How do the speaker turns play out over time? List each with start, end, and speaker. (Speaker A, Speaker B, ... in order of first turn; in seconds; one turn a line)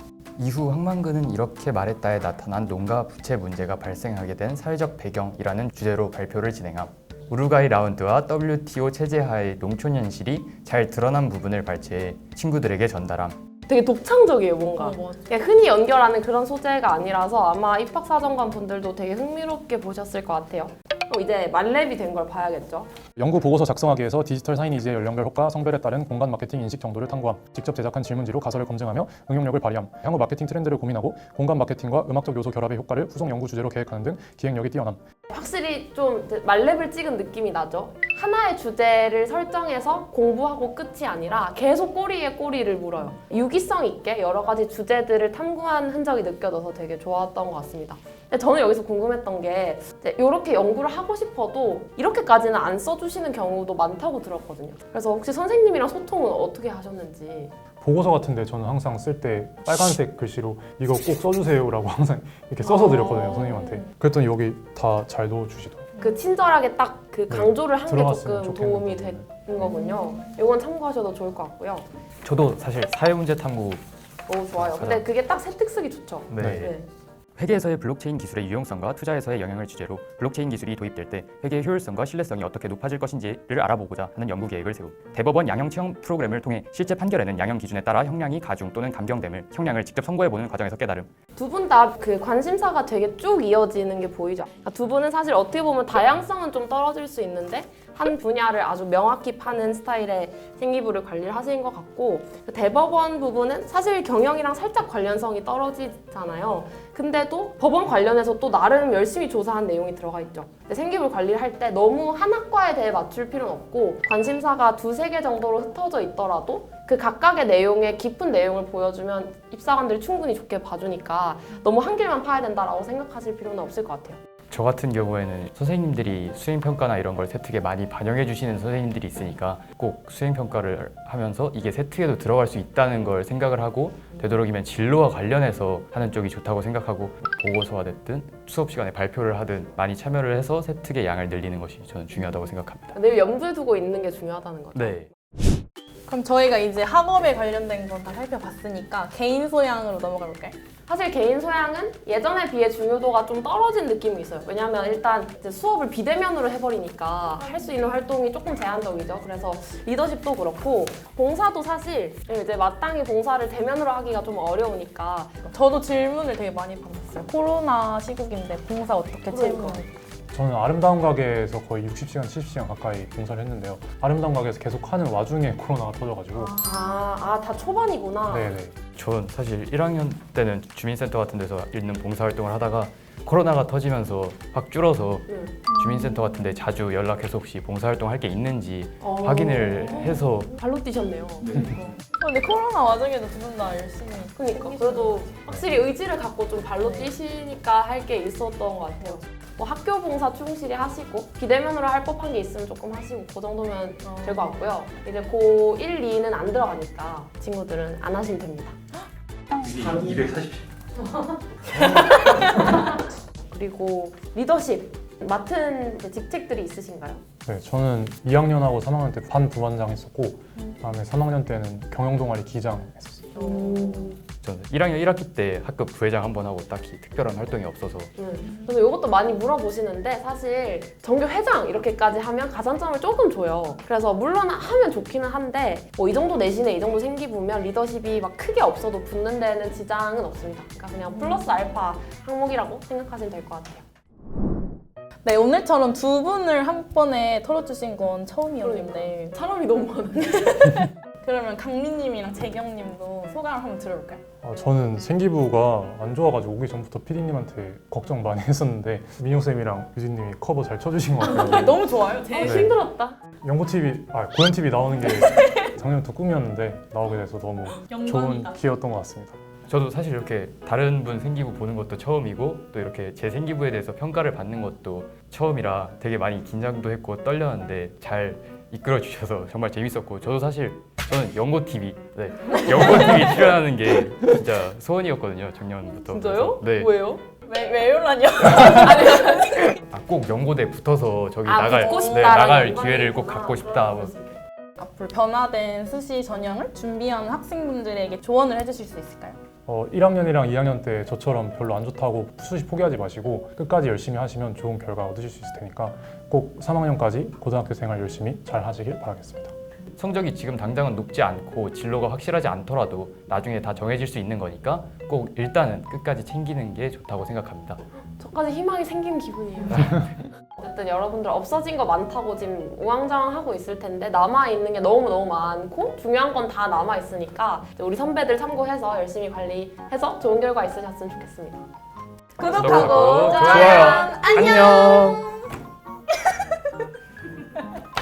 Speaker A: 0.4-13.4
Speaker B: 13.7-22.9
Speaker C: 14.8-15.4
Speaker D: 23.2-35.0
Speaker B: 35.3-57.5
Speaker D: 57.8-65.9
Speaker B: 62.6-63.6
Speaker B: 66.0-71.9
Speaker D: 67.3-69.3
Speaker C: 69.7-70.3
Speaker A: 72.2-73.8
Speaker B: 74.3-76.9
Speaker A: 74.5-75.0
Speaker A: 76.3-76.7
Speaker D: 76.4-76.7
Speaker A: 77.4-91.1
Speaker B: 91.4-124.2
Speaker A: 124.5-142.9
Speaker B: 142.9-145.0
Speaker A: 144.7-145.1
Speaker C: 146.1-150.6
Speaker B: 150.9-165.4
Speaker C: 157.4-157.9
Speaker C: 165.5-169.9
Speaker B: 169.3-169.8
Speaker D: 170.3-176.5
Speaker C: 176.3-177.1
Speaker B: 176.6-178.5
Speaker D: 178.3-178.8
Speaker A: 178.9-190.5
Speaker B: 185.3-185.6
Speaker C: 185.7-186.5
Speaker B: 189.0-191.6
Speaker C: 189.9-190.2
Speaker C: 191.5-195.2
Speaker B: 194.4-208.8
Speaker C: 196.8-197.1
Speaker C: 204.0-204.5
Speaker A: 209.8-210.5
Speaker B: 211.0-217.2
Speaker D: 217.4-223.4
Speaker B: 223.3-224.2
Speaker A: 224.4-228.1
Speaker B: 228.2-243.8
Speaker C: 241.2-241.4
Speaker C: 245.2-249.3
Speaker B: 248.6-250.9
Speaker C: 250.6-254.2
Speaker D: 254.4-261.8
Speaker C: 261.2-262.7
Speaker B: 262.2-263.2
Speaker D: 262.4-262.7
Speaker D: 263.4-269.4
Speaker C: 265.1-265.7
Speaker C: 267.8-268.6
Speaker A: 269.7-286.9
Speaker C: 282.6-283.4
Speaker B: 286.0-287.2
Speaker C: 287.4-289.8
Speaker B: 288.8-289.7
Speaker A: 289.9-294.1
Speaker B: 291.4-294.4
Speaker C: 291.7-292.5
Speaker C: 294.8-299.4
Speaker D: 299.7-309.5
Speaker A: 310.0-317.8
Speaker B: 318.2-331.7
Speaker C: 332.4-335.3
Speaker B: 332.4-334.1
Speaker A: 332.4-335.3
Speaker C: 336.1-336.5